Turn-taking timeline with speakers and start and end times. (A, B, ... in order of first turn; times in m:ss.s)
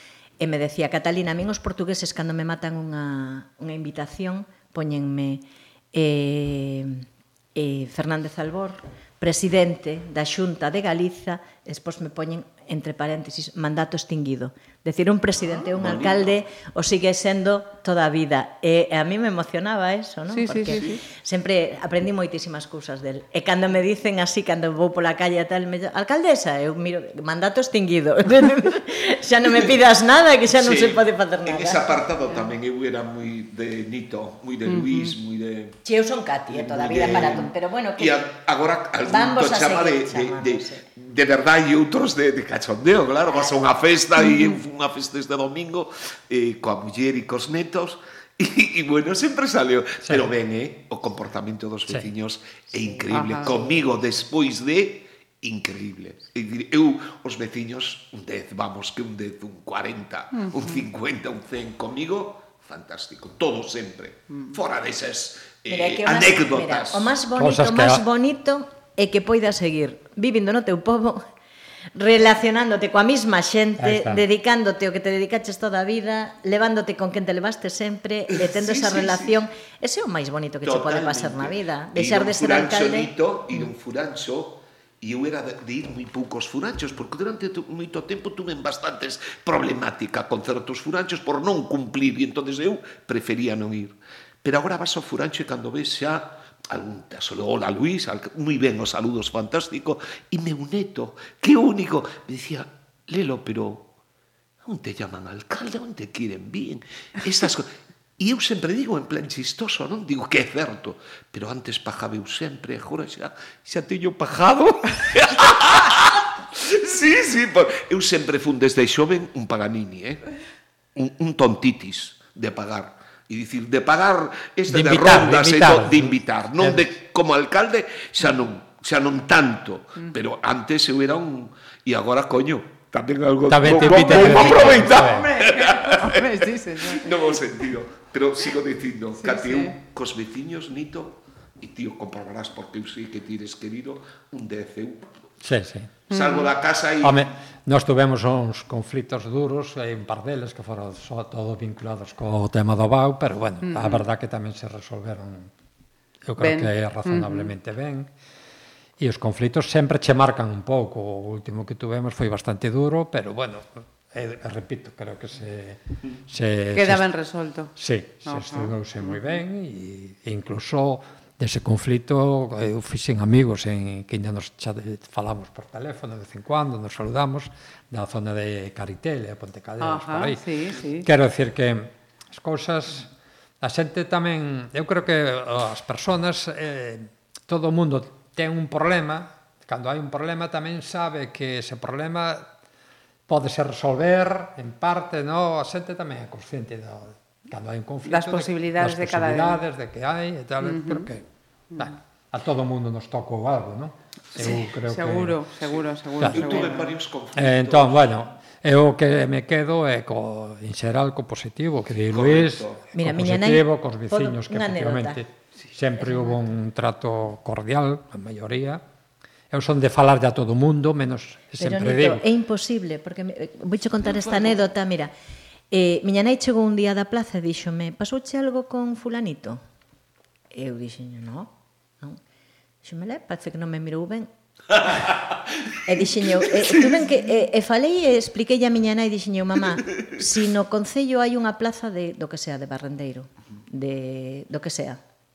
0:00.4-0:07.0 A
0:07.5-0:31.9 A
0:15.8-0:16.4 B
0:20.3-0:21.0 C
0:20.7-0:21.0 B
0:30.5-0:35.8 B
0:34.7-0:35.1 C
0:35.8-0:38.2 A
0:36.5-1:07.1 B
0:39.0-0:40.8 A
0:52.8-0:53.8 A
0:53.1-0:53.5 C
1:00.4-1:00.8 C
1:05.7-1:11.2 A
1:07.4-1:08.0 D
1:12.0-1:23.1 A
1:13.8-1:14.2 D
1:18.3-1:19.4 B
1:20.6-1:43.9 B
1:44.6-2:00.2 B
2:00.9-2:25.3 B
2:04.7-2:06.9 D
2:13.5-2:15.3 D
2:13.6-2:17.5 C
2:19.2-2:19.7 C
2:25.4-2:25.9 D
2:26.1-2:27.3 B
2:26.1-2:26.5 C
2:27.0-2:35.5 D
2:33.6-2:34.0 C
2:36.3-2:38.1 D
2:36.4-2:37.5 C
2:39.0-2:47.1 D
2:46.7-2:47.7 C
2:47.8-3:00.4 D
2:48.2-2:49.4 C
2:59.8-3:01.1 C
3:01.0-3:03.1 D
3:03.6-3:12.4 D
3:13.3-3:21.2 D
3:18.1-3:19.6 C
3:20.6-3:21.1 C
3:21.8-3:25.4 D
3:24.4-3:26.9 C
3:26.2-3:26.7 D
3:26.3-3:28.1 B
3:27.4-3:38.8 D
3:32.1-3:32.8 B
3:32.9-3:35.2 A
3:36.0-3:36.3 A
3:39.5-3:42.2 D
3:41.6-3:45.1 A
3:44.2-3:44.6 B
3:45.7-3:49.6 A
3:50.5-3:52.2 A
3:52.8-3:54.9 A
3:55.8-4:05.0 A